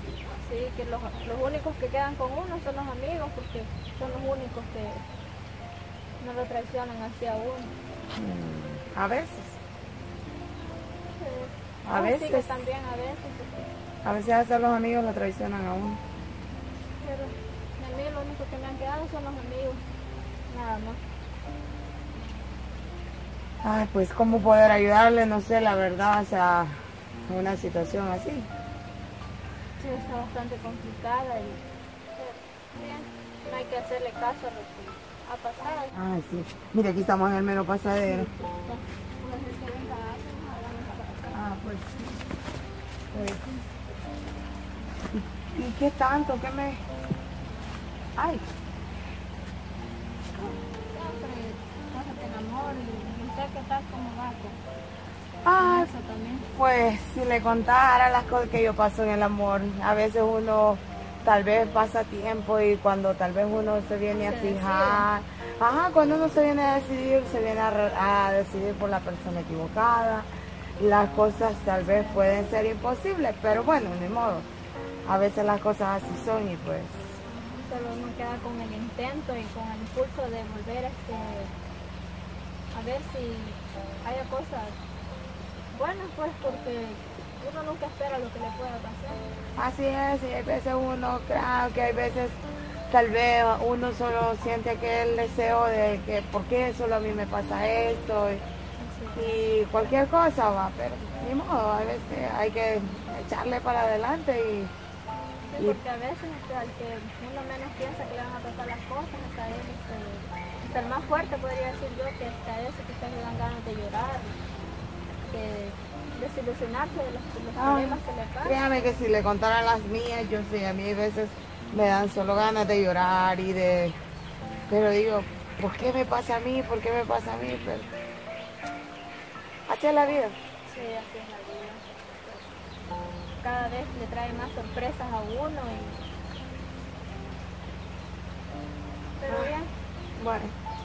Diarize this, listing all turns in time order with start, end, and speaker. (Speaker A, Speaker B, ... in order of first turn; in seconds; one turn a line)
Speaker A: 0.3-5.0
Speaker A: 6.2-7.7
Speaker B: 8.2-9.6
Speaker A: 11.1-13.7
Speaker B: 11.8-12.6
Speaker B: 14.0-16.0
Speaker A: 17.0-19.8
Speaker A: 20.5-21.0
Speaker B: 23.6-28.5
Speaker A: 29.8-31.6
Speaker A: 32.1-35.9
Speaker B: 35.9-38.3
Speaker A: 38.0-41.4
Speaker B: 41.3-42.2
Speaker B: 43.1-43.6
Speaker B: 45.1-46.8
Speaker B: 48.2-48.5
Speaker A: 50.4-54.6
Speaker B: 55.4-55.9
Speaker A: 55.6-56.5
Speaker B: 56.5-70.3
Speaker A: 64.2-65.1
Speaker B: 70.8-74.5
Speaker A: 71.9-72.2
Speaker B: 75.1-77.2
Speaker A: 77.5-81.5
Speaker A: 82.7-84.8
Speaker A: 85.7-89.2
Speaker B: 89.6-98.4
Speaker A: 98.8-99.4
Speaker B: 99.2-104.7
Speaker A: 105.5-114.4
Speaker A: 115.2-118.6
Speaker B: 117.6-124.0
Speaker B: 124.7-127.9
Speaker B: 129.7-130.4
Speaker A: 130.7-132.5
Speaker A: 133.4-136.1
Speaker A: 139.2-139.7
Speaker B: 139.3-139.6
Speaker B: 140.2-140.5